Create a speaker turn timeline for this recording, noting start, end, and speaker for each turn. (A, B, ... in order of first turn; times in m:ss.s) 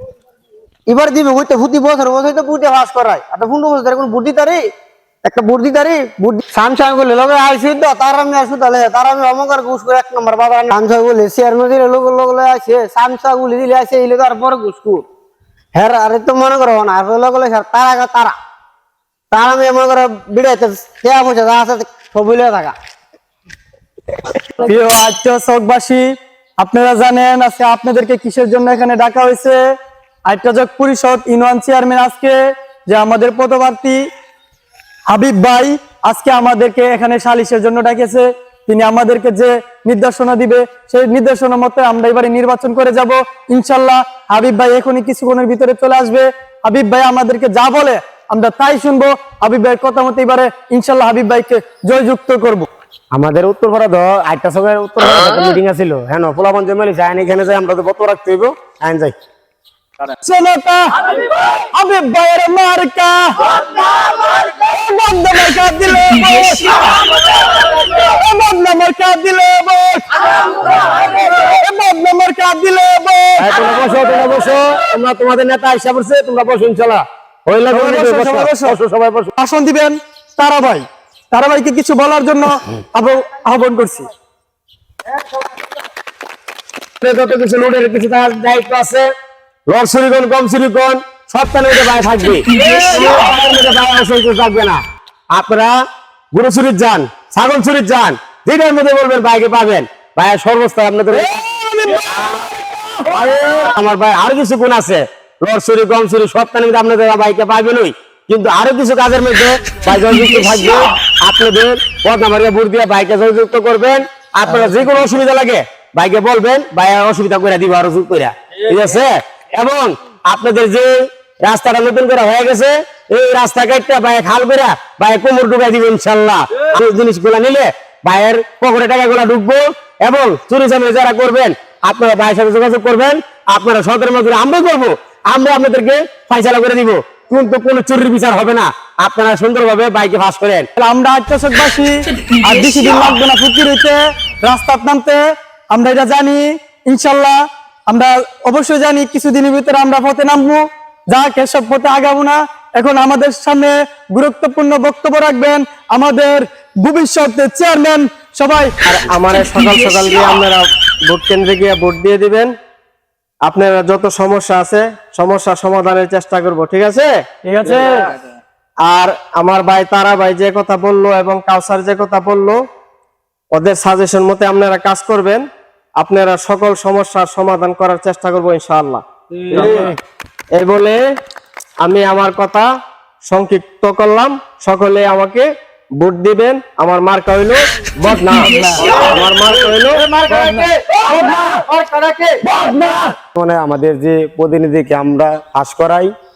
0:00.9-0:04.7 A
0:05.2-0:15.0 A
0:15.8-0:18.4 A
0:19.3-0:22.8 A
0:24.6-0:29.6 B
0:30.3-0:34.0 B
0:35.1-0:52.7 B
0:53.1-0:59.2 C
1:00.2-1:03.3 B
1:04.4-1:07.0 B
1:07.8-1:13.8 B
1:13.4-1:19.3 C
1:17.7-1:18.8 B
1:19.4-1:24.1 B
1:27.0-1:29.1 C
1:29.7-1:34.8 C
1:35.3-1:35.8 C
1:36.3-1:41.3 C
1:41.2-1:42.0 B
1:42.1-2:20.7 C
2:20.8-2:38.7 B
2:38.8-2:42.5 D
2:43.5-2:47.1 D
2:47.4-2:48.0 B
2:47.6-2:48.2 D
2:48.8-2:52.6 D
2:53.5-2:55.5 D
2:56.0-2:59.9 D
2:59.5-3:00.0 C
3:00.6-3:01.0 D
3:01.8-3:02.7 D
3:03.3-3:05.5 D
3:06.0-3:10.1 D
3:08.9-3:16.1 C